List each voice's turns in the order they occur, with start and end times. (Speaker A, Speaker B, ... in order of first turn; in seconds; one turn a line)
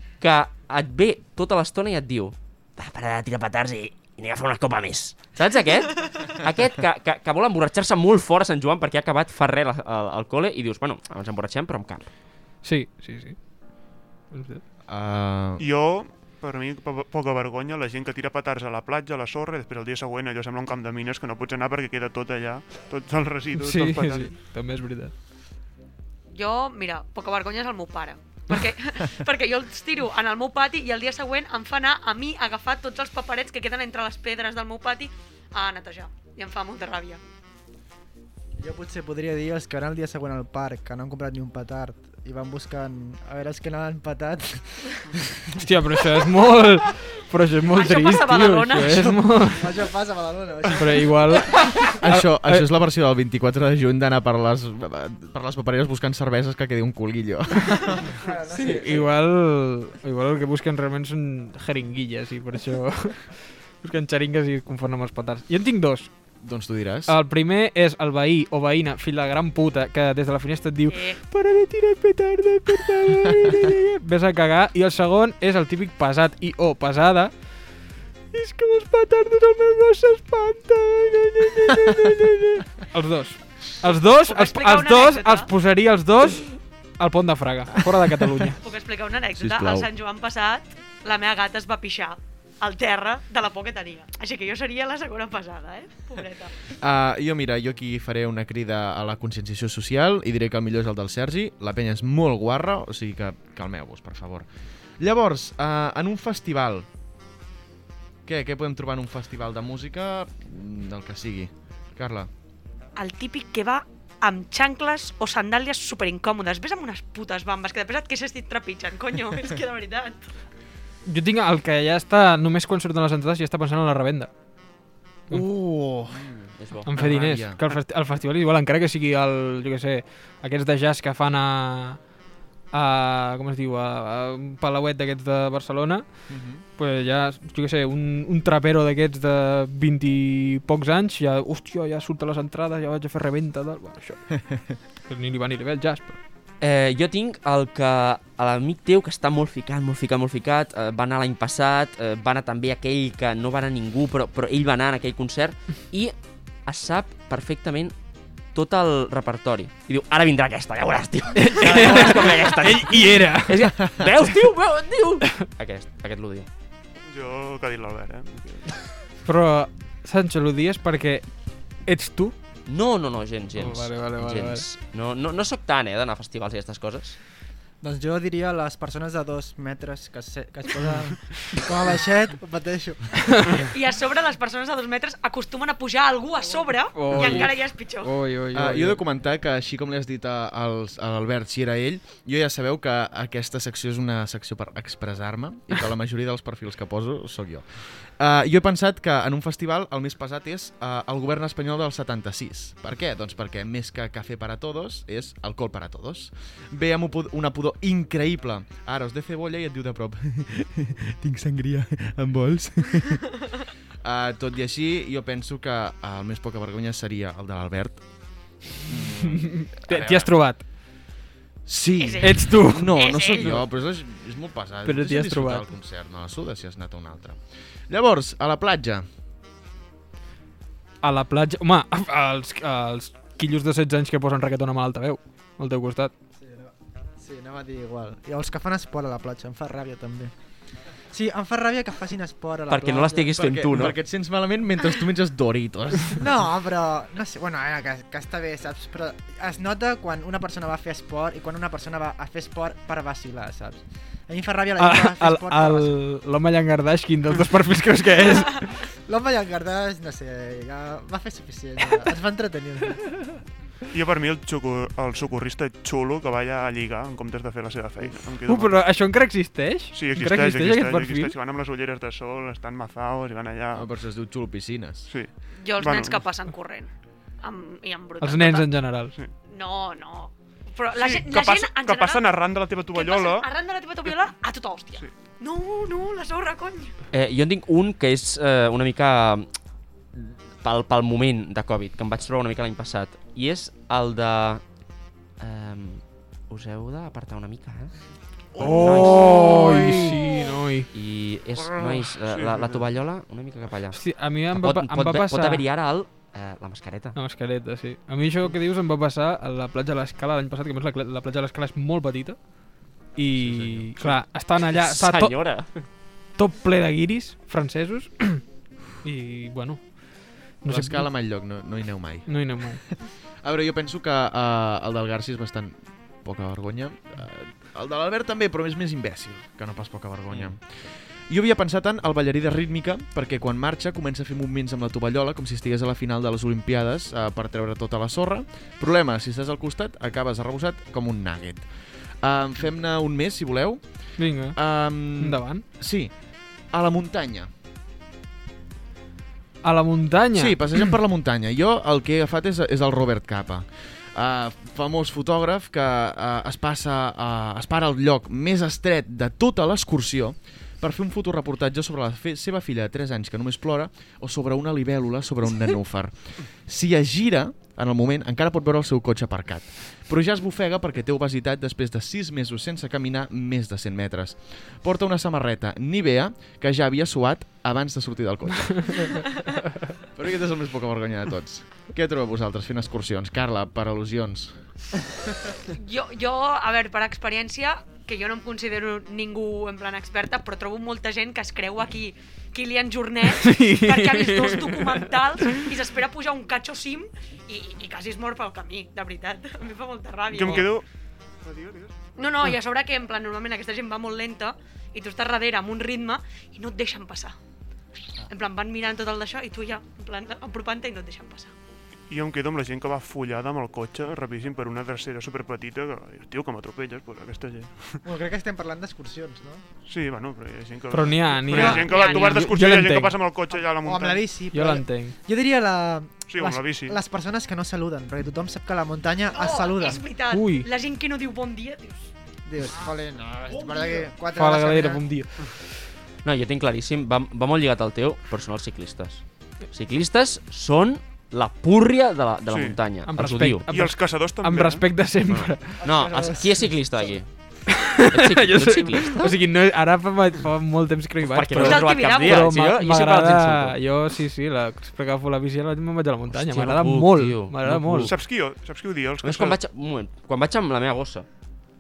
Speaker A: 0.2-12.1
Speaker B: 12.6-13.4
Speaker B: 14.3-14.6
Speaker C: 14.9-15.7
Speaker D: 15.6-24.4
Speaker B: 23.6-25.1
Speaker E: 26.3-37.2
Speaker F: 38.6-45.6
Speaker B: 45.5-49.8
Speaker E: 47.7-49.1
Speaker F: 49.4-51.5
Speaker B: 50.7-52.7
Speaker C: 52.0-58.0
Speaker F: 58.1-59.1
Speaker B: 58.5-66.1
Speaker C: 66.4-67.2
Speaker B: 67.1-77.6
Speaker E: 70.9-71.2
Speaker B: 78.3-88.6
Speaker E: 83.9-85.5
Speaker E: 88.6-96.5
Speaker C: 89.3-89.9
Speaker C: 96.8-104.5
Speaker C: 105.0-106.9
Speaker C: 108.2-112.3
Speaker E: 113.0-120.2
Speaker B: 121.1-124.3
Speaker B: 125.3-126.2
Speaker A: 126.2-126.9
Speaker B: 126.8-132.1
Speaker C: 127.0-127.6
Speaker B: 132.7-144.4
Speaker C: 136.3-136.6
Speaker B: 145.1-146.2
Speaker A: 146.6-156.1
Speaker A: 156.7-157.9
Speaker A: 158.5-166.5
Speaker B: 161.3-163.7
Speaker D: 167.1-168.7
Speaker B: 169.3-171.3
Speaker B: 171.8-172.3
Speaker A: 172.7-177.2
Speaker B: 173.6-174.6
Speaker F: 177.8-183.6
Speaker E: 183.7-188.1
Speaker B: 186.9-189.0
Speaker C: 188.5-213.4
Speaker C: 214.0-218.1
Speaker C: 218.6-220.4
Speaker B: 219.2-220.6
Speaker C: 221.7-227.4
Speaker E: 221.9-223.6
Speaker B: 222.2-223.1
Speaker B: 224.8-225.8
Speaker C: 227.9-229.1
Speaker B: 231.0-236.1
Speaker F: 236.4-240.3
Speaker F: 241.1-243.3
Speaker A: 242.7-244.0
Speaker C: 243.3-246.2
Speaker F: 246.2-256.0
Speaker B: 254.8-258.8
Speaker F: 259.1-263.3
Speaker D: 263.9-268.9
Speaker B: 268.4-271.4
Speaker D: 269.9-273.9
Speaker C: 273.7-275.1
Speaker D: 275.1-276.3
Speaker E: 275.6-278.8
Speaker B: 278.2-279.1
Speaker E: 279.5-286.9
Speaker D: 280.9-283.5
Speaker A: 287.1-289.5
Speaker A: 290.2-294.6
Speaker A: 295.4-297.9
Speaker A: 298.6-300.0
Speaker B: 298.6-300.9
Speaker A: 300.9-307.2
Speaker D: 302.3-302.8
Speaker B: 303.9-305.6
Speaker B: 307.1-315.7
Speaker C: 313.4-314.1
Speaker A: 314.7-315.9
Speaker B: 316.4-318.4
Speaker B: 319.0-321.1
Speaker C: 320.6-322.7
Speaker B: 322.3-322.8
Speaker C: 323.4-347.5
Speaker B: 344.2-345.6
Speaker B: 349.6-350.9
Speaker C: 350.3-379.2
Speaker C: 380.1-384.6
Speaker E: 385.7-400.8
Speaker B: 393.3-395.0
Speaker D: 400.3-400.9
Speaker D: 401.4-401.9
Speaker E: 402.2-407.4
Speaker E: 408.3-411.5
Speaker D: 412.1-418.0
Speaker F: 418.1-419.6
Speaker D: 419.9-424.4
Speaker B: 420.9-423.2
Speaker E: 421.5-422.4
Speaker F: 423.7-430.1
Speaker B: 424.5-425.1
Speaker D: 426.3-427.0
Speaker E: 429.3-432.1
Speaker B: 430.3-430.7
Speaker F: 432.5-435.0
Speaker B: 434.4-435.8
Speaker A: 436.2-443.6
Speaker D: 442.5-442.8
Speaker B: 443.1-445.8
Speaker D: 443.6-445.0
Speaker A: 445.3-449.3
Speaker F: 445.8-447.2
Speaker B: 447.9-458.1
Speaker A: 451.3-453.8
Speaker E: 451.6-452.5
Speaker A: 456.3-458.2
Speaker D: 458.0-459.6
Speaker A: 459.2-461.3